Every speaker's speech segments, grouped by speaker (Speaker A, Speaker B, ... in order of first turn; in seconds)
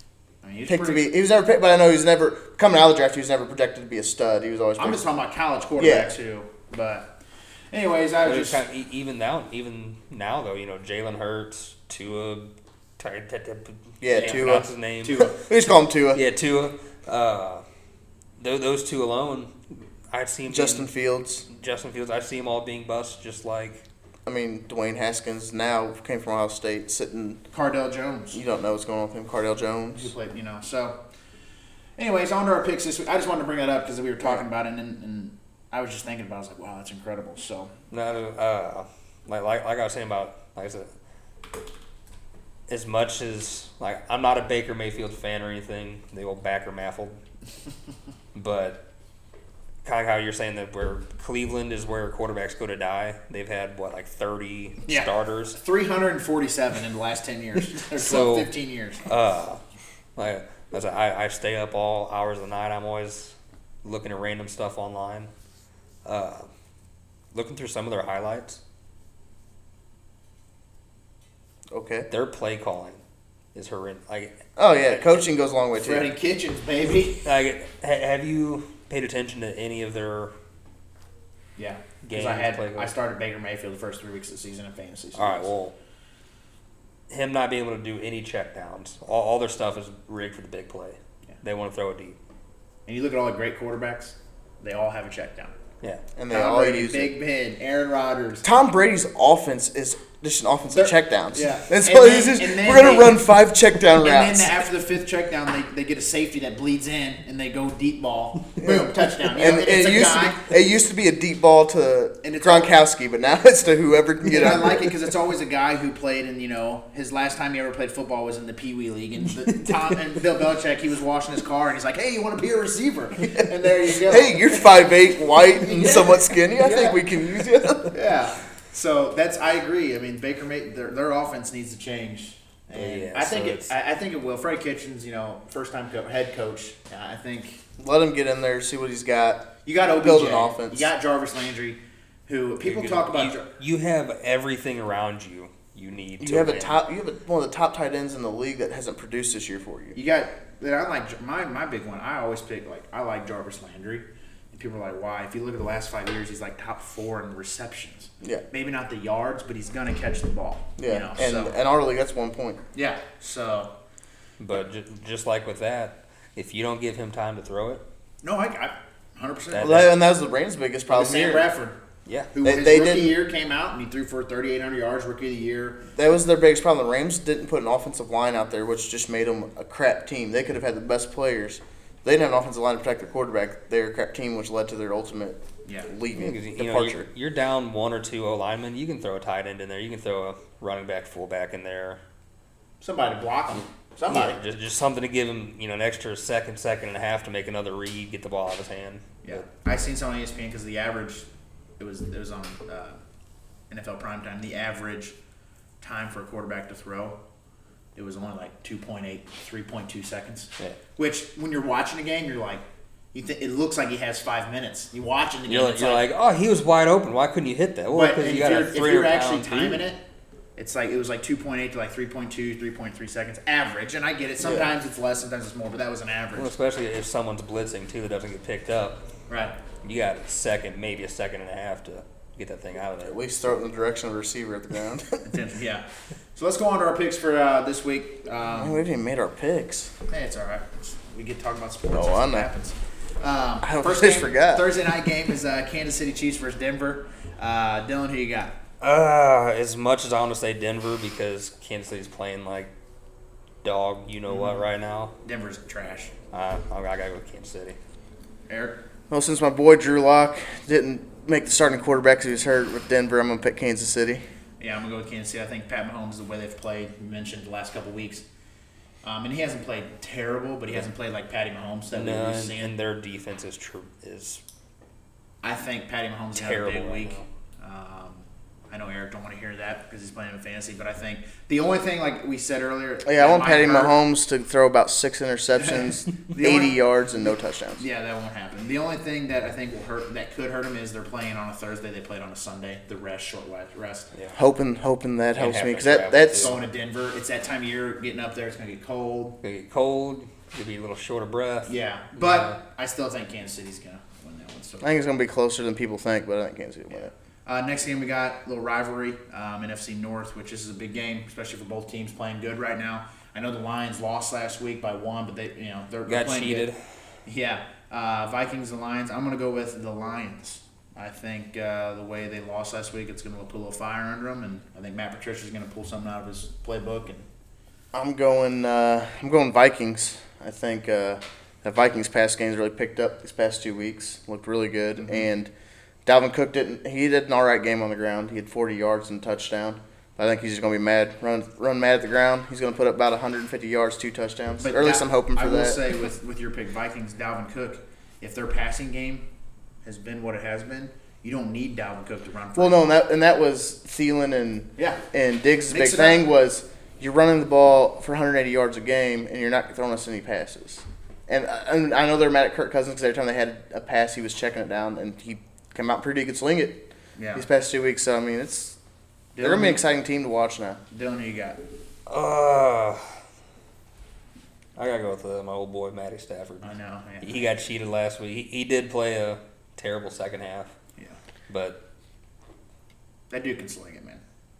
Speaker A: 0.4-1.1, 4.8-7.2, 7.7-8.6, 14.1-15.4, 27.5-28.4, 29.9-31.0, 32.0-37.7, 54.9-59.0, 75.8-77.3, 81.6-85.5, 92.9-95.5, 96.3-98.4, 100.7-103.3, 104.0-110.5, 112.2-112.7, 114.3-124.7, 125.6-127.0, 127.9-137.6, 139.7-143.5, 149.9-161.6, 162.7-163.7, 168.2-169.9, 170.9-171.8, 172.3-175.8, 185.6-185.9, 192.8-194.4, 199.2-201.3, 201.8-203.0, 203.7-205.2, 205.8-207.2, 207.9-216.1, 217.9-220.0, 220.6-226.5, 229.3-229.6, 235.2-238.8, 240.1-248.6, 254.3-254.6, 255.2-256.1, 258.5-258.8, 264.6-268.2, 269.0-272.7, 275.4-283.9, 285.6-294.1, 296.3-299.4, 301.6-304.9, 306.9-316.7, 317.3-327.3, 344.6-349.3, 349.8-352.8, 354.8-355.0, 355.7-356.3, 367.2-367.4, 369.3-369.8, 370.9-371.6, 376.6-377.5, 383.3-384.2
Speaker B: 0.7-5.0, 5.8-6.1, 14.0-16.2, 20.5-21.4, 24.2-27.4, 28.3-30.1, 71.7-72.1, 74.6-76.1, 96.2-97.1, 98.4-104.6, 108.6-114.9, 123.9-127.9, 137.8-140.9, 146.2-149.9, 160.8-162.6, 169.6-171.5, 172.4-173.2, 175.9-187.1, 224.4-224.7, 233.0-235.2, 238.5-239.9, 241.9-242.5, 243.6-244.7, 259.1-264.2, 283.1-287.8, 294.3-296.6, 304.8-307.1, 327.9-335.5, 336.1-345.8, 352.6-368.8, 369.4-370.8
Speaker C: 8.2-15.3, 16.1-17.6, 18.4-20.9, 21.5-23.8, 37.9-40.9, 42.7-47.2, 48.3-48.8, 49.8-55.6, 57.9-58.5, 59.0-59.6, 60.1-65.3, 66.0-66.5, 67.3-68.6, 72.1-73.0, 73.5-75.2, 77.2-80.3, 82.0-82.9, 85.1-85.7, 87.1-92.2, 132.7-133.7, 142.6-146.8, 164.4-167.8, 169.5-169.9, 186.1-192.0, 194.1-199.4, 215.5-219.8, 226.4-229.0, 229.8-233.2, 248.8-252.7, 253.6-255.1, 256.3-257.8, 271.9-274.4, 276.3-277.2, 295.3-296.6, 299.4-302.6, 316.1-316.8, 372.1-373.2, 374.8-376.7, 377.2-380.7, 381.5-381.8